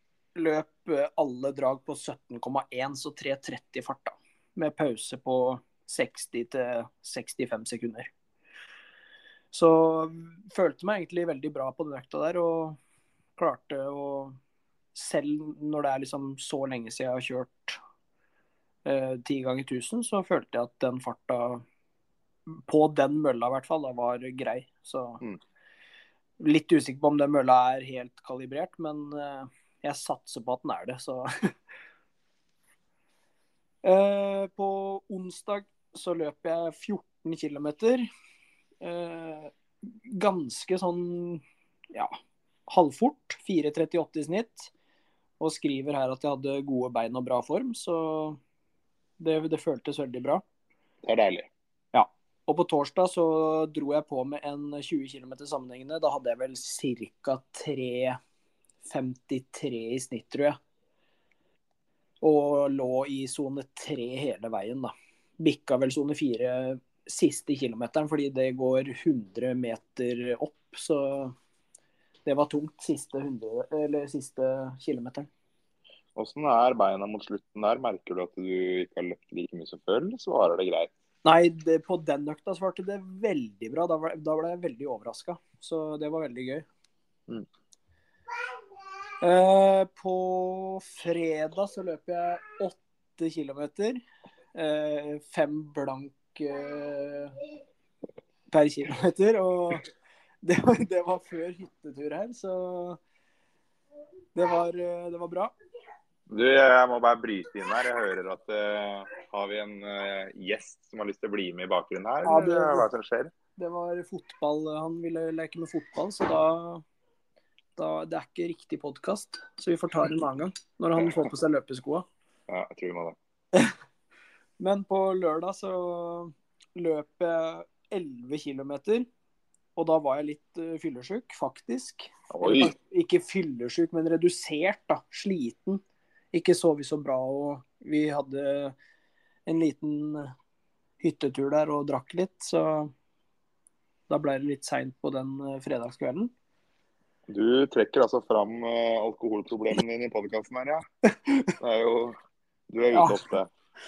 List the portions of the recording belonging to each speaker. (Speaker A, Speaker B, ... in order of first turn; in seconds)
Speaker A: 0.3-8.1, 9.5-12.8, 13.4-14.4, 14.9-17.8, 18.9-21.6, 22.5-25.2, 26.4-31.5, 33.8-38.1, 38.8-44.7, 45.4-48.4, 49.2-50.4, 51.9-58.2, 58.8-60.6, 62.2-71.3, 72.2-75.3, 81.2-86.7, 89.2-94.0, 94.5-97.4, 98.5-99.9, 100.4-103.0, 104.3-105.5, 112.2-112.9, 113.6-116.8, 117.8-122.1, 124.6-129.1, 129.8-135.8, 136.3-138.8, 139.5-140.3, 141.0-142.9, 144.1-146.3, 151.3-151.5, 152.9-153.2
Speaker B: 51.0-51.5, 76.2-80.9, 106.3-113.3, 121.0-121.2, 122.5-123.2, 132.3-132.7, 147.3-150.8, 151.6-152.2, 152.7-153.5